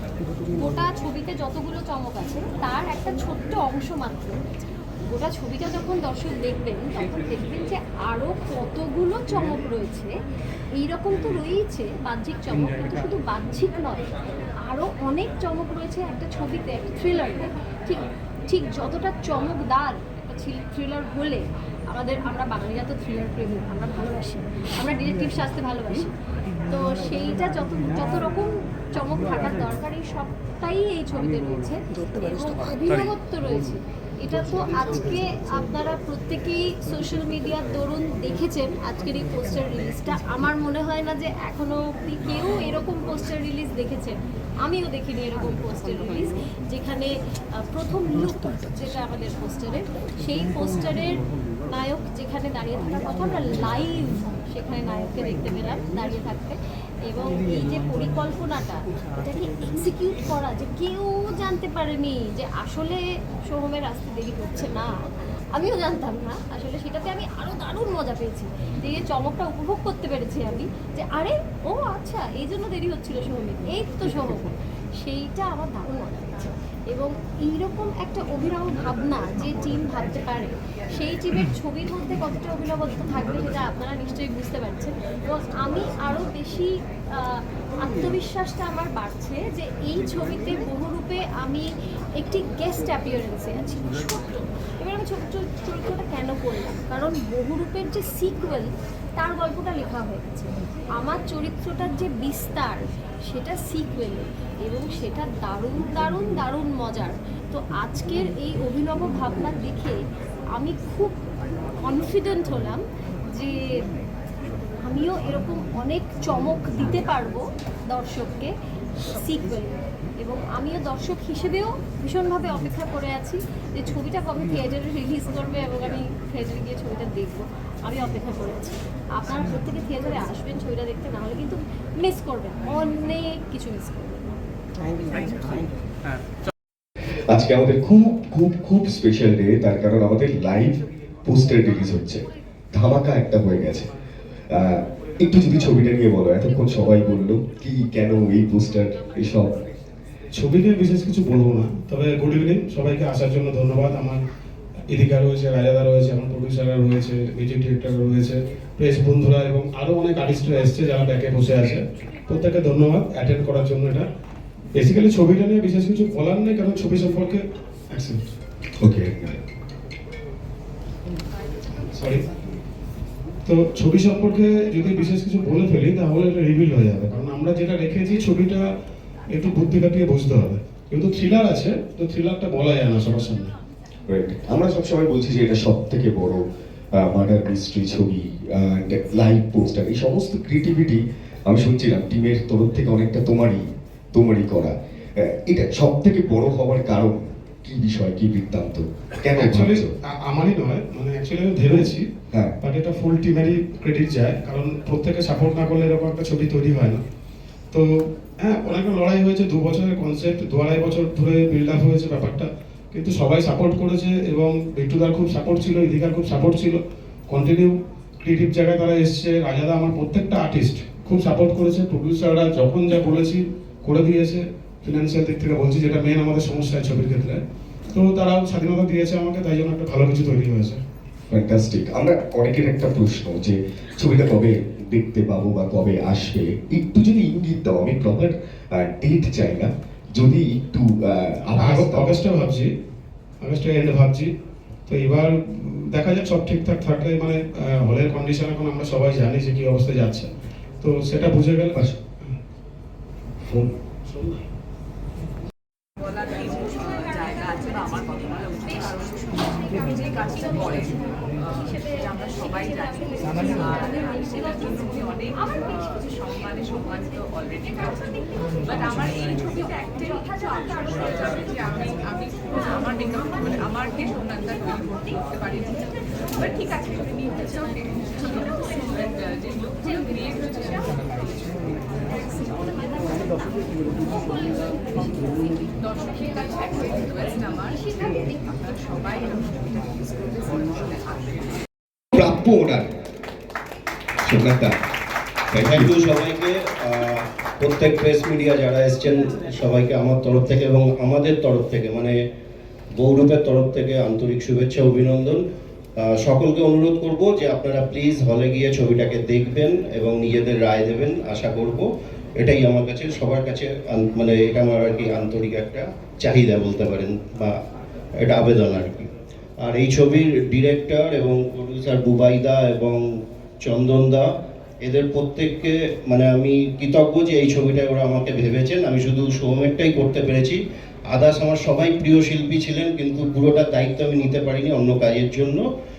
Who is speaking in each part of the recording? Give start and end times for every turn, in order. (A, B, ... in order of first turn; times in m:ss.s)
0:00.6-0:04.4 A
0:05.1-0:10.1 A
0:10.8-0:14.1 A
0:14.7-0:21.4 A
0:21.9-0:26.1 A
0:26.7-0:47.1 A
0:47.6-0:56.6 A
0:57.1-1:04.9 A
1:05.6-1:14.5 A
1:15.0-1:31.7 A
1:32.2-1:40.5 A
1:41.0-1:50.0 A
1:50.6-1:51.2 A
1:51.9-1:52.8 A
1:53.3-1:53.6 A
1:54.8-2:14.2 A
2:17.3-2:23.9 B
2:24.5-2:29.5 B
2:30.4-2:34.2 C
2:34.9-2:44.1 C
2:44.8-2:48.2 C
2:48.8-2:49.4 B
2:52.0-2:52.2 C
2:53.5-2:58.7 C
2:59.3-3:03.5 C
3:04.1-3:06.4 B
3:06.9-3:19.9 B
3:19.4-3:22.1 C
3:21.7-3:22.6 B
3:22.6-3:27.0 C
3:28.4-3:47.4 C
3:47.9-3:50.8 C
3:51.3-4:02.2 B
4:01.5-4:02.7 C
4:03.4-4:04.3 C
4:04.9-4:10.3 C
4:10.8-4:12.3 C
4:13.4-4:14.4 B
4:16.0-4:43.2 D
4:45.7-4:51.6 D
4:52.2-4:52.9 B
4:54.2-4:54.8 B
4:55.5-4:55.9 B
4:55.6-5:02.2 E
5:03.0-5:05.4 E
5:06.0-5:17.6 E
5:18.2-5:24.3 E
5:24.8-5:35.6 E